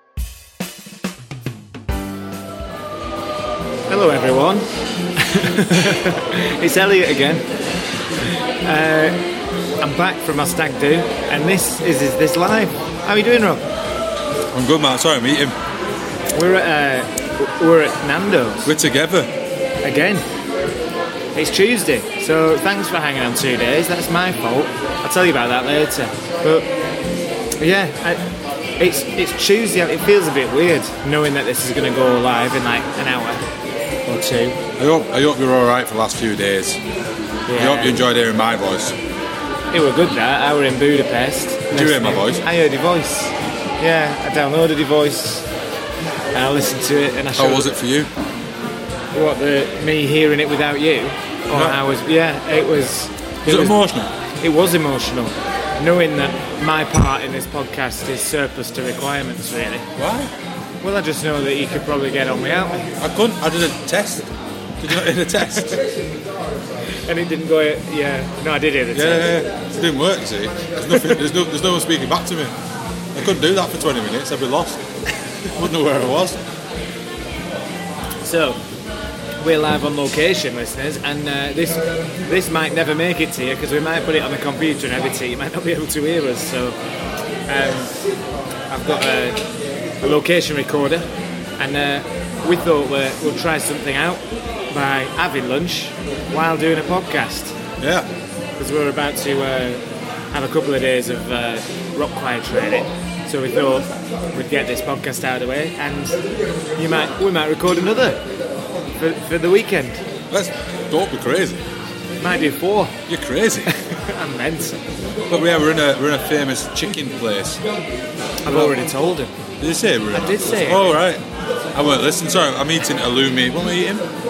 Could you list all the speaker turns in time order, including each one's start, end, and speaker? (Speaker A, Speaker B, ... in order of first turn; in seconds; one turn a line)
Speaker A: 3.9-7.4
Speaker A: 8.2-9.2
Speaker A: 9.8-13.7
Speaker B: 14.5-15.6
Speaker A: 16.3-18.7
Speaker B: 18.6-19.3
Speaker A: 19.8-20.3
Speaker A: 21.4-26.7
Speaker A: 27.6-28.2
Speaker A: 28.8-33.4
Speaker A: 34.1-34.6
Speaker B: 34.8-36.8
Speaker A: 37.5-38.0
Speaker B: 37.5-39.0
Speaker A: 39.7-45.5
Speaker B: 41.7-42.5
Speaker A: 46.3-47.7
Speaker B: 47.4-48.1
Speaker A: 49.1-53.8
Speaker B: 51.5-51.8
Speaker B: 53.5-54.1
Speaker A: 54.4-59.9
Speaker B: 60.0-60.3
Speaker A: 60.8-62.9
Speaker B: 63.0-65.8
Speaker A: 67.0-69.3
Speaker B: 68.9-72.5
Speaker A: 70.9-71.2
Speaker B: 73.1-74.8
Speaker B: 75.5-76.4
Speaker A: 78.2-78.6
Speaker A: 79.4-86.8
Speaker A: 87.5-88.0
Speaker A: 88.7-89.4
Speaker A: 90.0-97.6
Speaker B: 97.8-98.1
Speaker A: 98.6-106.2
Speaker A: 106.8-108.2
Speaker A: 109.0-110.0
Speaker B: 110.3-111.6
Speaker A: 112.2-113.0
Speaker B: 113.1-113.7
Speaker A: 113.7-114.8
Speaker B: 115.3-117.6
Speaker A: 118.4-119.3
Speaker B: 118.5-118.9
Speaker B: 119.6-121.2
Speaker A: 120.1-121.0
Speaker B: 121.7-124.1